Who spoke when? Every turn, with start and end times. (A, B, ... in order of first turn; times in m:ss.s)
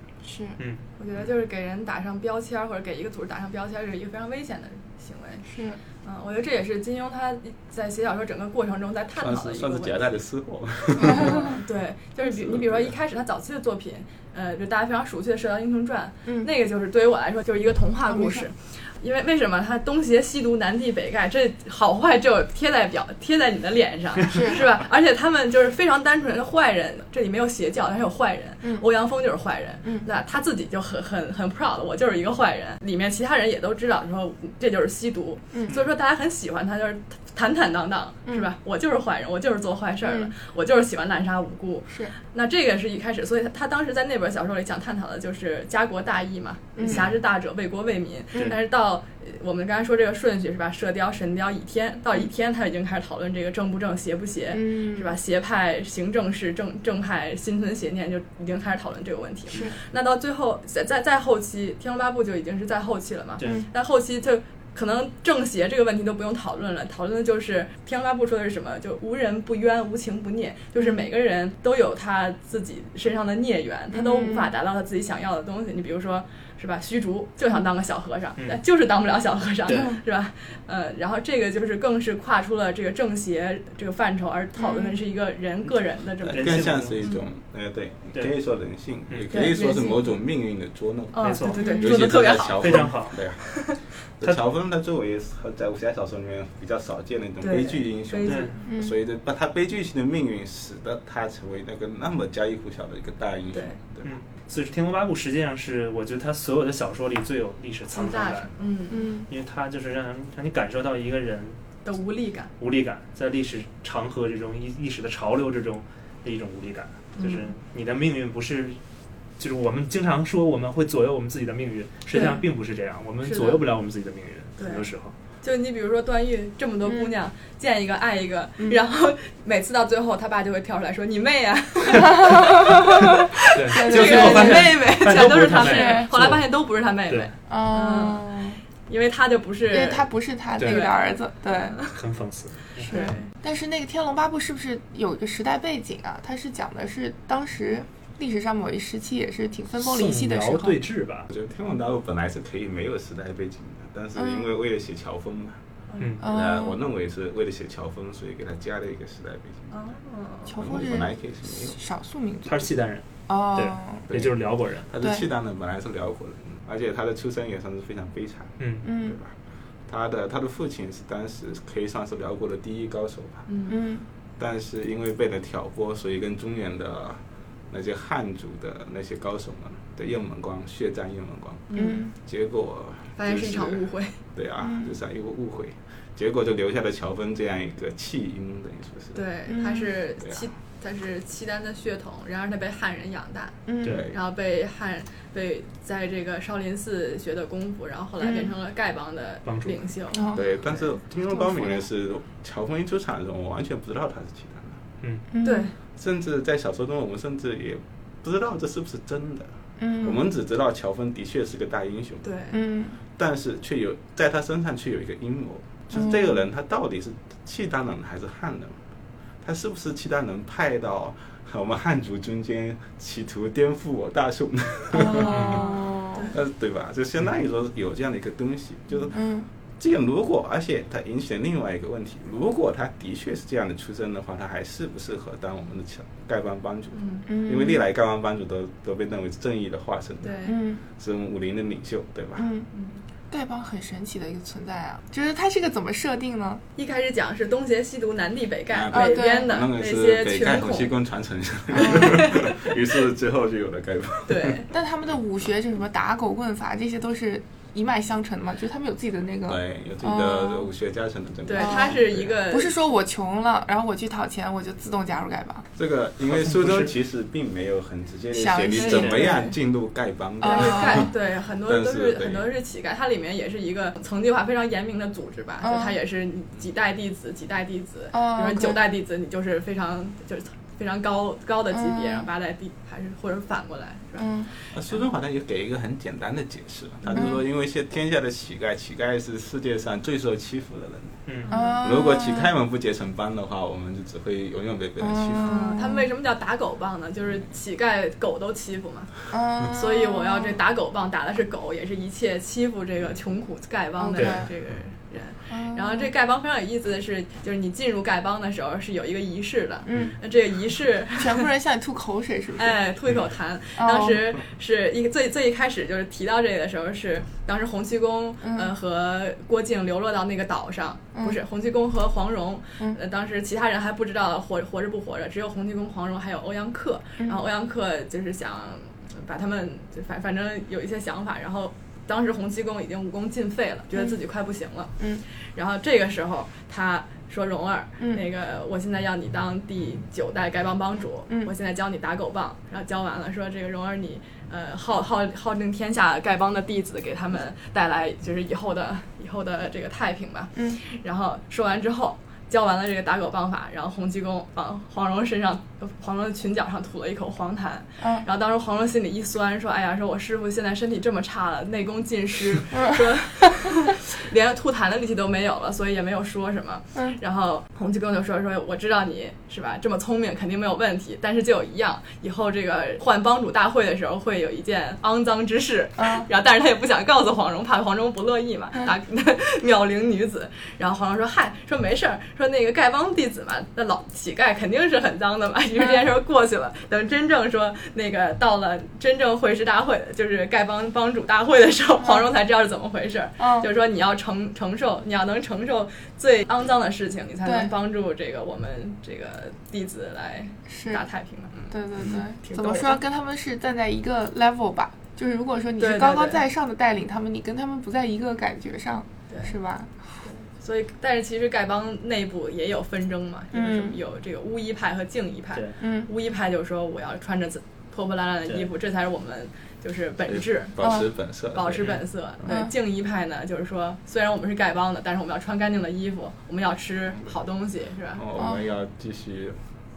0:00.2-0:00.6 A
0:01.0-0:05.5 B
0:05.4-0:05.8 A
0:06.0-0:10.1 B
0:09.2-0:11.6 C
0:11.0-1:27.2 B
0:11.1-0:11.6 A
0:12.2-0:13.0 C
0:18.1-0:18.4 A
0:24.3-0:24.6 A
0:40.0-0:40.3 A
0:41.9-0:42.1 A
0:46.8-0:47.1 A
0:46.9-0:47.1 D
0:54.5-0:55.2 A
0:59.5-0:59.8 A
1:03.4-1:03.6 D
1:03.4-1:03.7 A
1:13.9-1:14.5 A
1:19.6-1:20.0 D
1:19.7-1:20.0 A
1:24.6-1:25.0 A
1:26.2-1:31.2 C
1:26.3-1:27.0 D
1:29.1-1:29.4 D
1:29.3-1:30.1 B
1:31.1-1:33.8 B
1:31.2-1:33.2 D
1:31.5-1:31.9 A
1:31.8-1:33.6 C
1:34.2-1:44.1 C
1:37.4-1:38.6 B
1:38.2-1:38.5 D
1:38.6-1:39.0 A
1:43.5-1:43.8 B
1:44.0-1:48.5 D
1:47.9-1:49.1 B
1:48.9-1:49.3 A
1:49.3-1:51.6 D
1:51.8-1:52.5 B
1:52.6-1:58.8 D
1:57.2-1:57.5 B
1:59.4-2:05.1 D
2:03.2-2:03.6 B
2:04.6-2:04.9 B
2:05.4-2:22.0 B
2:06.8-2:07.1 A
2:12.0-2:14.8 A
2:13.5-2:16.4 D
2:15.5-2:16.2 A
2:17.5-2:18.6 A
2:19.7-2:21.8 A
2:20.6-2:20.8 D
2:21.9-2:23.0 D
2:22.8-2:23.3 B
2:22.9-2:30.8 A
2:29.8-2:31.3 D
2:31.3-2:35.6 C
2:34.1-2:34.5 A
2:35.9-2:36.2 B
2:36.2-2:36.8 A
2:36.2-2:39.7 C
2:39.7-2:40.6 B
2:40.5-2:42.7 A
2:40.5-2:41.8 C
2:42.4-2:44.9 D
2:43.3-2:44.1 A
2:44.1-2:49.3 C
2:45.0-2:45.3 A
2:48.6-2:48.9 D
2:48.8-2:49.2 A
2:49.9-2:53.4 C
2:53.5-2:53.8 B
2:53.7-2:54.0 A
2:54.4-3:01.6 C
3:01.7-3:02.1 B
3:01.8-3:02.1 A
3:02.2-3:09.2 C
3:03.2-3:04.2 B
3:04.6-3:05.0 A
3:09.1-3:20.8 B
3:09.5-3:09.9 A
3:13.7-3:14.0 A
3:13.8-3:14.1 D
3:13.8-3:14.2 C
3:18.2-3:18.5 A
3:19.4-3:19.9 D
3:20.1-3:20.6 A
3:20.3-3:24.8 C
3:21.3-3:21.9 A
3:25.3-3:25.7 A
3:25.4-3:25.7 B
3:25.9-3:29.5 C
3:29.8-3:30.2 A
3:30.0-3:32.2 C
3:32.2-3:32.6 B
3:32.5-3:33.0 A
3:33.2-3:38.7 C
3:35.9-3:36.4 A
3:39.4-3:45.6 C
3:44.9-3:46.3 A
3:45.0-3:46.4 B
3:45.3-3:45.6 D
3:46.3-3:49.2 C
3:49.1-3:49.5 A
3:49.8-4:02.5 C
3:56.9-3:57.3 B
3:57.3-3:57.8 A
4:00.2-4:00.6 B
4:00.4-4:00.8 A
4:02.4-4:02.7 A
4:02.7-4:03.0 B
4:03.3-4:06.6 A
4:06.8-4:11.0 B
4:08.7-4:14.6 C
4:08.9-4:09.6 A
4:11.7-4:12.7 B
4:11.8-4:12.2 A
4:14.3-4:14.7 B
4:14.7-4:20.7 A
4:19.5-4:22.4 C
4:21.4-4:22.8 B
4:21.6-4:25.7 A
4:25.8-4:31.1 C
4:26.3-4:26.9 D
4:28.3-4:29.3 A
4:28.7-4:29.6 B
4:30.4-4:31.1 A
4:30.4-4:44.7 B
4:31.6-4:32.5 C
4:35.6-4:36.0 A
4:38.1-4:38.8 A
4:41.7-4:42.3 A
4:44.2-4:44.5 A
4:44.7-4:51.2 C
4:47.0-4:47.3 B
4:47.1-4:47.4 A
4:51.5-4:51.8 B
4:51.5-4:52.5 A
4:51.8-4:55.7 C
4:55.0-4:56.1 A
4:55.4-4:59.1 B
4:59.3-5:00.6 A
4:59.6-5:11.5 B
5:04.0-5:04.5 A
5:04.2-5:04.4 D
5:05.5-5:06.1 A
5:09.9-5:10.2 A
5:11.1-5:12.8 A
5:12.6-6:43.0 B
5:13.8-5:14.3 A
5:18.4-5:18.7 A
6:16.0-6:16.3 A
6:32.0-6:32.2 A
6:33.4-6:33.7 A
6:37.4-6:37.7 A
6:40.7-6:41.1 A
6:41.7-6:50.2 A
6:45.8-6:46.4 B
6:49.3-6:49.5 B
6:50.2-7:00.8 B
6:53.5-6:54.0 A
6:55.8-6:56.1 A
7:00.3-7:01.9 C
7:00.8-7:01.1 A
7:01.5-7:08.2 B
7:01.8-7:02.0 D
7:02.4-7:02.7 A
7:08.2-7:09.6 C
7:08.4-7:08.6 A